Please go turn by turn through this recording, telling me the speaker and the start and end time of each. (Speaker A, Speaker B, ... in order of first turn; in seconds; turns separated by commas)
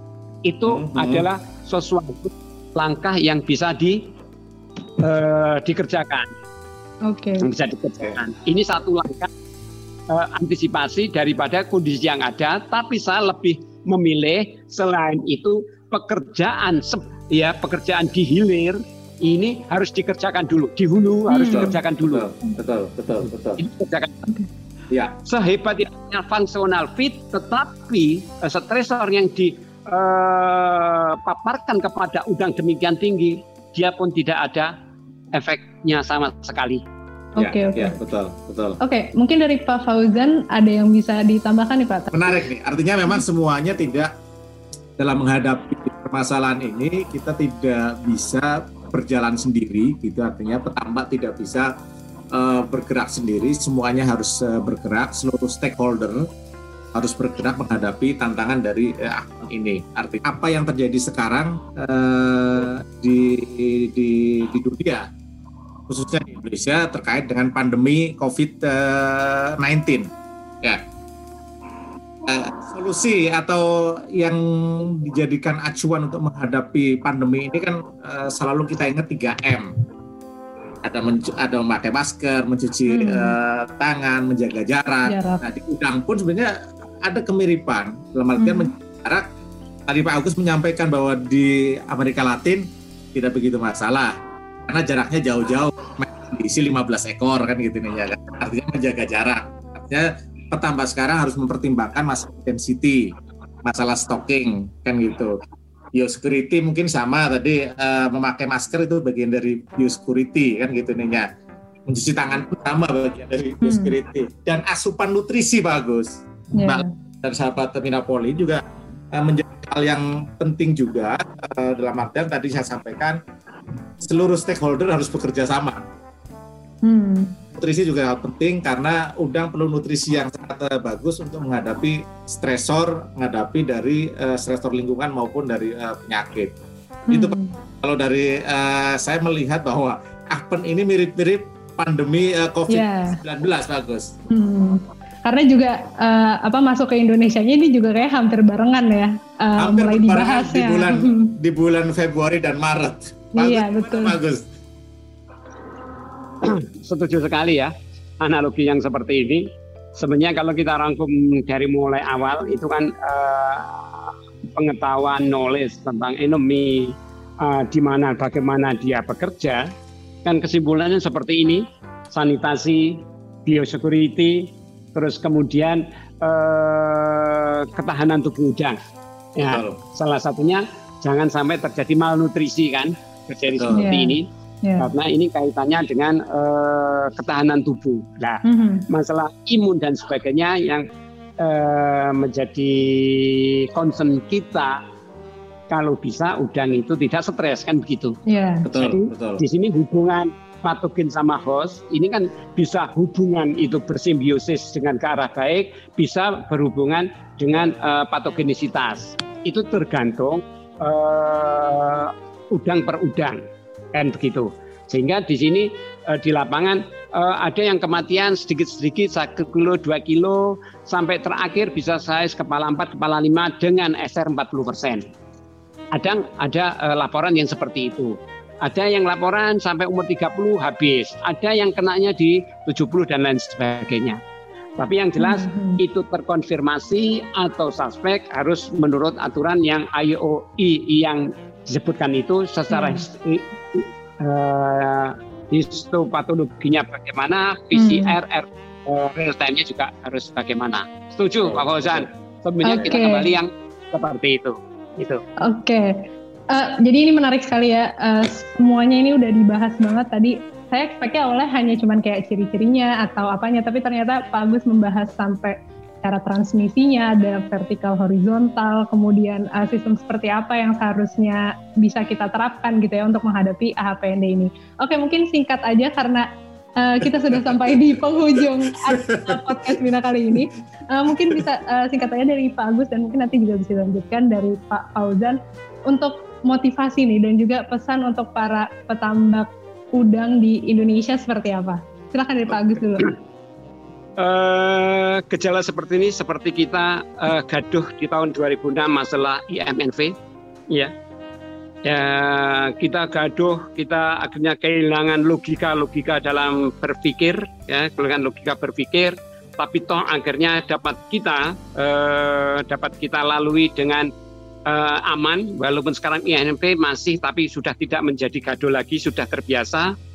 Speaker A: 0.5-4.1, Speaker B: 0.7-1.3, Speaker A: 5.0-6.3, Speaker C: 7.0-7.5, Speaker A: 7.4-9.3, Speaker A: 10.1-22.3, Speaker C: 21.3-21.7, Speaker B: 21.5-23.6, Speaker A: 23.6-24.2, Speaker B: 24.9-25.2, Speaker A: 25.2-34.7, Speaker A: 35.3-36.8, Speaker C: 37.4-38.0, Speaker B: 37.4-38.8, Speaker C: 38.8-42.3, Speaker B: 42.1-44.1, Speaker B: 45.0-51.7, Speaker B: 52.3-56.2, Speaker B: 56.9-65.1, Speaker B: 65.9-70.1, Speaker B: 72.2-79.7, Speaker B: 80.8-89.3, Speaker C: 82.9-83.3, Speaker C: 85.1-85.4, Speaker C: 88.4-88.7, Speaker B: 89.9-94.2, Speaker B: 94.7-105.4, Speaker B: 106.0-111.3, Speaker B: 111.9-118.6, Speaker C: 113.6-114.0, Speaker C: 116.6-116.9, Speaker B: 119.1-123.2, Speaker B: 124.0-125.8, Speaker C: 126.8-127.4, Speaker B: 127.5-136.6, Speaker C: 137.1-137.6, Speaker B: 137.1-144.1, Speaker C: 142.7-143.2, Speaker C: 144.3-151.3, Speaker B: 149.6-154.5, Speaker C: 153.4-154.2, Speaker A: 156.4-169.7, Speaker A: 170.2-178.8, Speaker A: 179.4-184.3, Speaker B: 179.4-179.8, Speaker B: 183.6-183.8, Speaker C: 183.7-184.9, Speaker A: 184.8-190.9, Speaker C: 188.4-188.9, Speaker A: 191.4-194.8, Speaker A: 195.7-198.2, Speaker C: 198.3-198.7, Speaker B: 198.7-199.4, Speaker A: 198.8-213.4, Speaker A: 213.9-225.0, Speaker A: 225.9-234.2, Speaker A: 234.8-255.2, Speaker C: 235.2-235.8, Speaker C: 242.7-243.1, Speaker C: 247.7-248.2, Speaker B: 251.4-252.1, Speaker C: 252.6-253.3, Speaker C: 255.4-276.3, Speaker C: 276.8-293.1, Speaker B: 277.3-279.7, Speaker A: 294.2-300.1, Speaker A: 301.9-314.1, Speaker A: 314.7-319.9